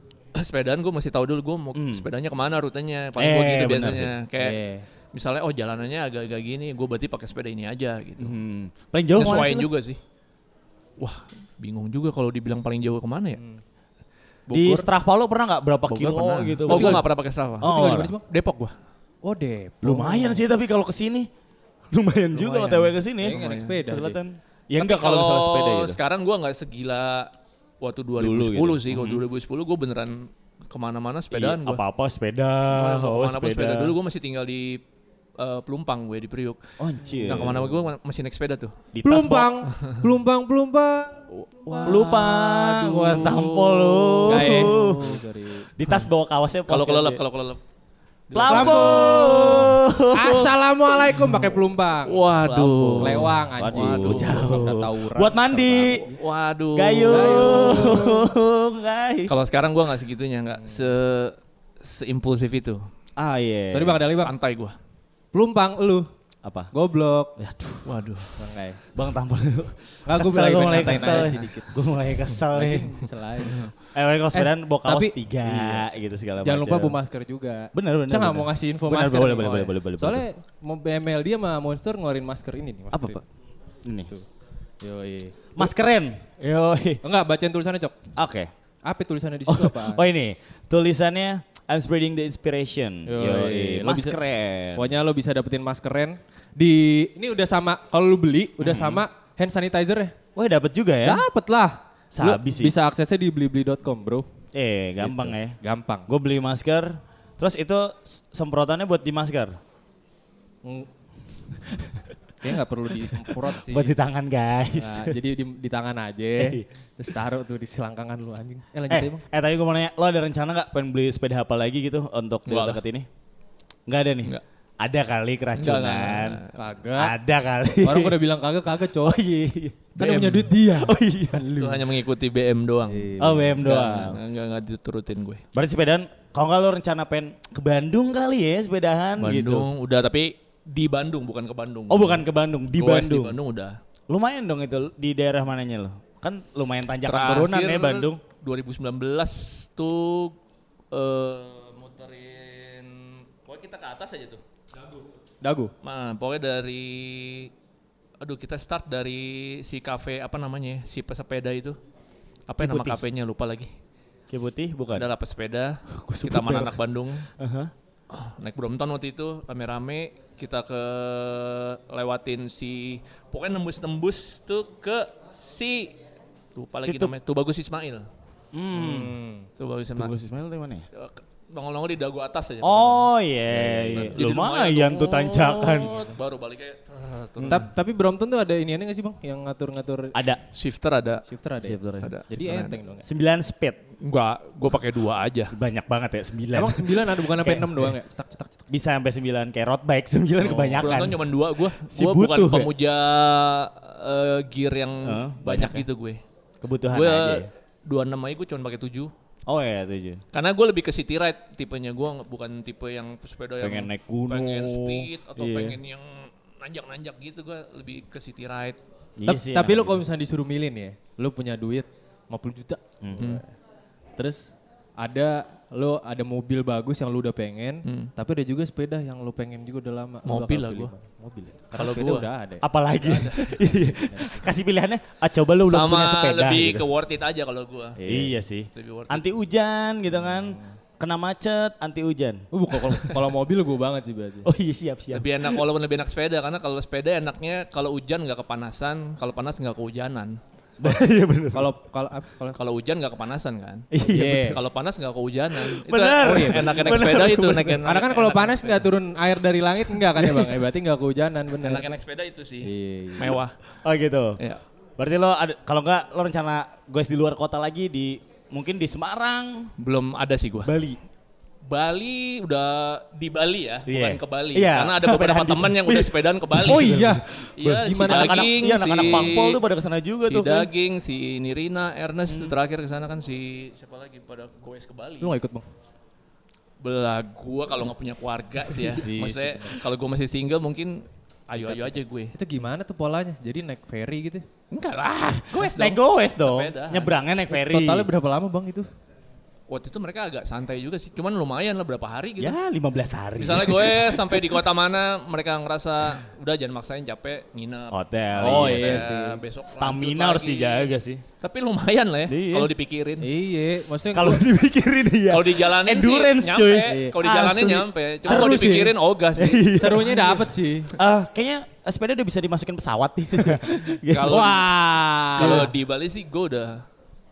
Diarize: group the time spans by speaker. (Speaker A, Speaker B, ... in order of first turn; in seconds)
Speaker A: 0.3-4.6, 5.1-8.3, 9.2-10.0, 11.0-13.4, 14.5-14.9, 15.9-17.7, 18.2-18.7, 23.2-23.9, 24.8-31.8, 32.7-34.8, 35.4-36.6, 37.3-38.7, 39.7-40.0, 41.3-45.1, 46.7-47.6, 48.3-50.5, 52.0-54.6, 56.0-58.1, 59.3-62.8, 64.1-64.8, 67.8-68.3, 70.9-71.3, 122.5-122.8, 125.5-126.5, 129.9-130.5, 131.6-133.1, 133.6-135.4, 139.2-142.2, 142.8-143.8, 147.0-150.3, 150.9-154.4, 155.8-157.5, 158.2-161.8, 162.5-163.7, 164.9-167.3, 168.1-175.9, 176.5-178.1, 179.6-180.1, 180.9-183.1, 183.6-187.7, 190.5-191.2, 192.0-192.7, 194.0-195.6, 200.8-206.2, 206.9-209.1, 210.3-218.8, 227.8-228.1, 230.2-230.9, 231.7-232.3, 233.0-233.6, 235.7-238.0, 238.7-239.2, 245.1-250.4, 252.6-258.9, 261.6-263.5, 269.8-270.7, 271.6-277.0, 277.6-279.6, 280.2-285.3, 286.8-292.3, 294.7-297.2, 299.7-302.6, 303.4-313.3, 315.3-320.0, 324.1-324.7, 325.4-326.8
Speaker B: 1.7-2.0, 3.1-4.1, 8.2-9.7, 14.5-17.1, 17.6-18.1, 19.8-21.3, 21.9-26.0, 28.2-29.2, 31.3-34.0, 36.8-37.9, 38.9-39.5, 41.9-45.2, 45.8-47.2, 48.3-50.4, 52.4-56.0, 56.7-59.4, 63.2-64.1, 66.4-66.7, 67.4-68.0, 68.9-73.0, 73.8-77.0, 77.7-80.2, 82.9-83.2, 85.5-87.0, 88.2-88.5, 89.5-94.9, 98.6-99.0, 100.3-101.2, 102.1-102.8, 104.5-109.6, 113.2-115.2, 116.4-116.7, 118.9-123.1, 123.9-126.4, 126.9-128.2, 129.0-129.9, 130.6-131.4, 133.2-134.2, 135.5-139.7, 141.9-143.4, 144.1-148.2, 162.6-163.0, 164.3-165.1, 165.9-167.7, 176.8-177.1, 178.5-179.1, 179.9-180.8, 182.6-186.1, 187.4-187.7, 190.1-190.4, 191.6-193.8, 195.5-197.9, 198.7-201.2, 201.9-202.7, 205.0-205.8, 206.6-207.5, 209.5-210.2, 213.6-215.8, 219.2-220.0, 223.0-223.3, 232.6-236.9, 238.0-242.4, 244.4-245.6, 250.8-251.7, 253.9-254.6, 255.5-257.8, 260.1-260.5, 263.8-264.4, 265.0-269.7, 270.6-271.0, 273.9-280.7, 282.3-282.5, 295.5-298.1, 302.4-304.4, 307.9-309.1, 309.7-311.2, 312.3-312.7, 314.1-317.5, 318.2-320.4, 320.9-325.7
Speaker C: 4.4-4.8, 16.7-17.1, 17.6-18.2, 19.2-20.4, 22.3-24.2, 37.0-37.5, 39.0-42.0, 44.3-45.7, 48.4-56.1, 57.1-58.2, 63.7-64.3, 65.3-66.1, 66.7-67.3, 68.3-68.8, 70.0-71.7, 72.5-73.7, 74.3-75.8, 76.4-83.2, 84.8-85.7, 87.0-88.0, 88.8-90.0, 93.1-94.2, 94.7-100.2, 101.0-104.2, 105.0-106.1, 112.4-114.0, 114.7-119.2, 126.5-127.1, 127.8-129.2, 130.0-131.9, 132.9-133.9, 155.4-155.7, 178.7-179.5, 183.7-184.1, 187.5-190.1, 191.3-193.1, 196.5-198.6, 200.4-200.9, 219.2-223.5, 224.2-232.6, 234.1-234.4, 238.0-238.3, 240.3-240.8, 242.5-244.5, 251.5-252.6, 254.0-254.6, 256.2-257.2, 257.8-261.9, 262.6-263.4, 276.6-279.3, 285.2-285.7, 289.0-289.8, 292.3-294.5, 297.5-298.9, 308.4-309.4, 313.2-314.4, 316.9-318.9, 319.7-320.9, 324.6-325.7